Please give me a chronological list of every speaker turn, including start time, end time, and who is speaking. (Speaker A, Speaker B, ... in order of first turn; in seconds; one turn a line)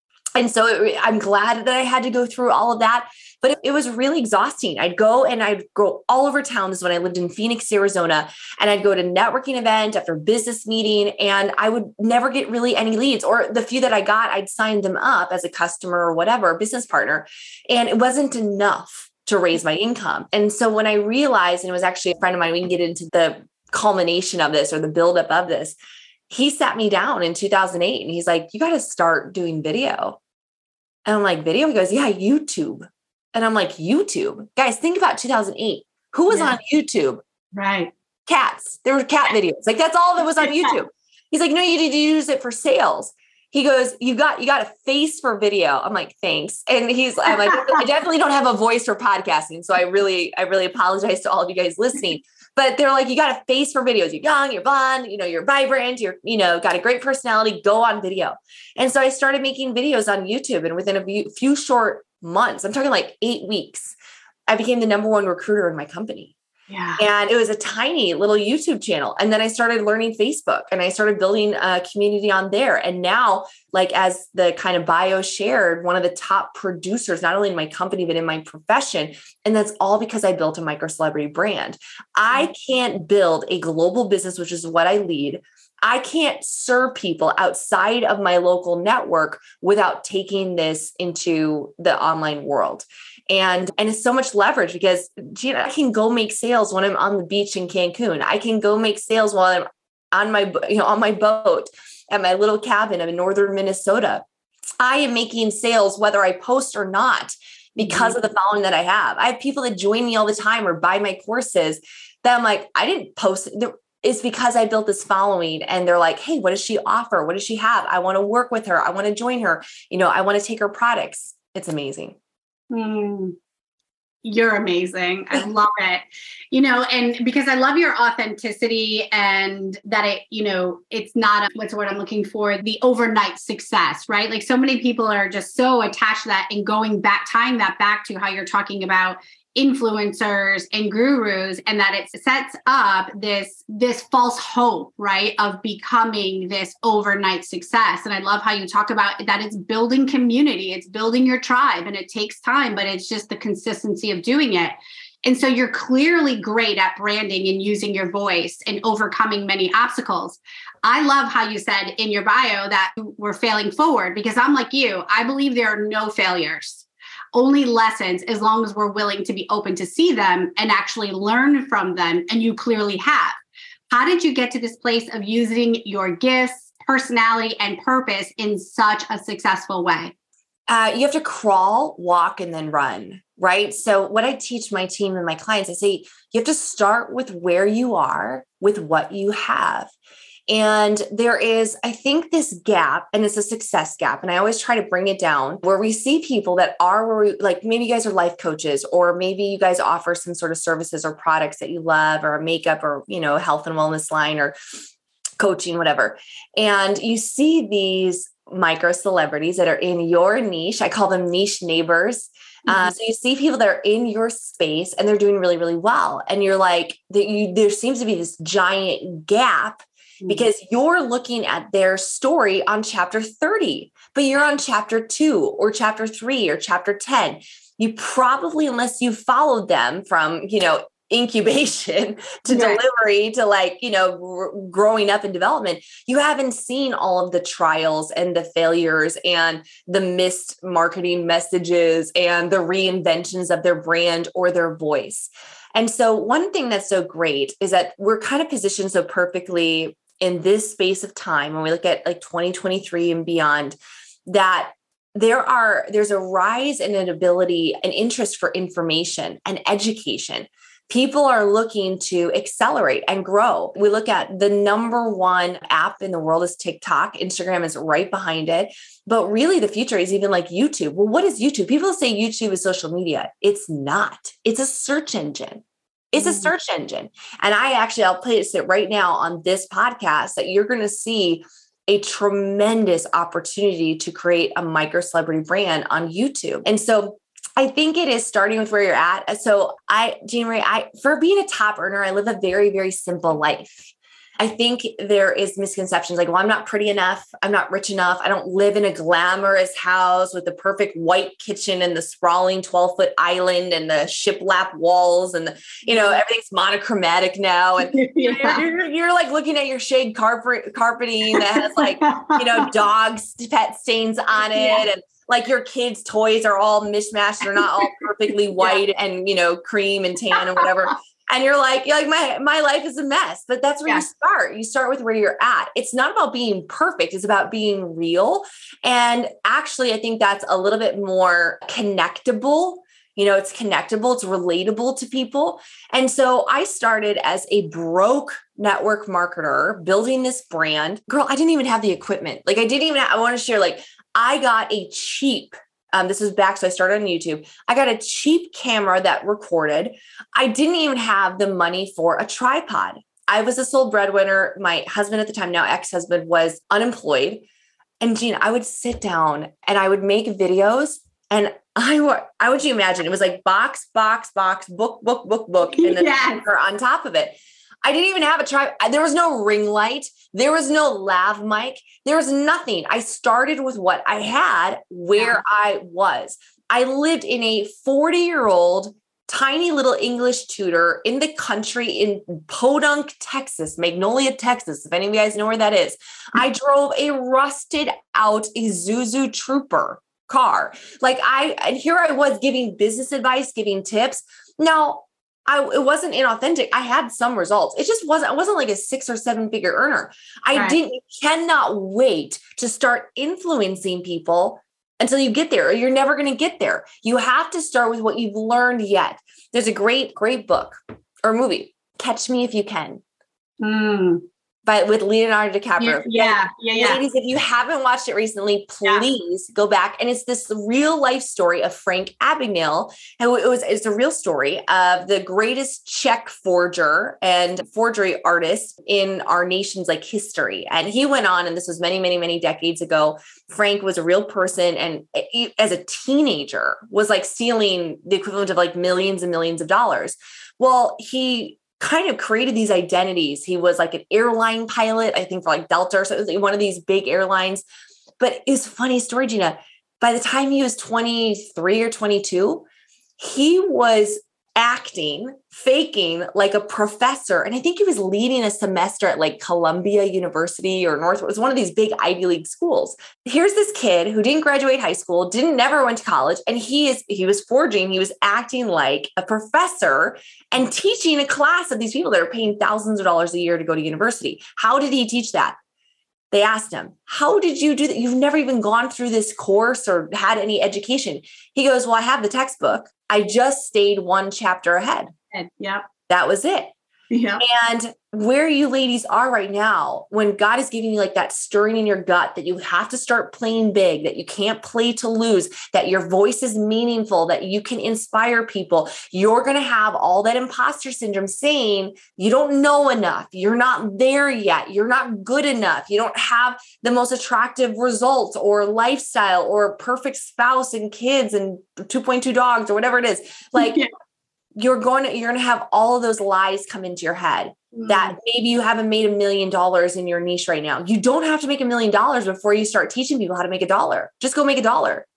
Speaker A: 0.4-25.8
Speaker A: 26.3-30.2
Speaker A: 31.1-37.2
Speaker B: 36.3-36.6
Speaker B: 37.5-37.9
Speaker A: 38.3-64.0
Speaker B: 40.4-40.7
Speaker B: 47.3-47.8
Speaker A: 64.5-66.3
Speaker B: 66.7-67.0
Speaker A: 67.0-104.2
Speaker A: 104.8-122.2
Speaker B: 107.8-108.2
Speaker B: 122.7-123.4
Speaker B: 124.2-173.4
Speaker B: 173.9-180.1
Speaker A: 180.7-189.9
Speaker A: 190.5-204.5
Speaker A: 205.4-357.4
Speaker B: 212.7-212.9
Speaker B: 220.2-220.5
Speaker B: 232.5-232.8
Speaker B: 276.2-276.5
Speaker B: 305.9-306.2
Speaker B: 307.9-308.6
Speaker B: 311.3-312.7
Speaker B: 314.5-314.9
Speaker B: 317.5-317.9
Speaker B: 318.6-318.8
Speaker A: 358.0-413.0
Speaker B: 365.7-366.4
Speaker B: 375.2-375.4
Speaker B: 413.6-414.2
Speaker A: 414.7-447.6
Speaker B: 415.8-417.0
Speaker A: 448.2-452.6
Speaker A: 453.2-475.6
Speaker A: 476.3-485.1
Speaker B: 485.3-485.8
Speaker A: 486.1-486.7
Speaker B: 487.1-487.4
Speaker A: 487.4-513.8
Speaker B: 513.5-513.9
Speaker A: 514.5-525.0
Speaker B: 517.7-518.1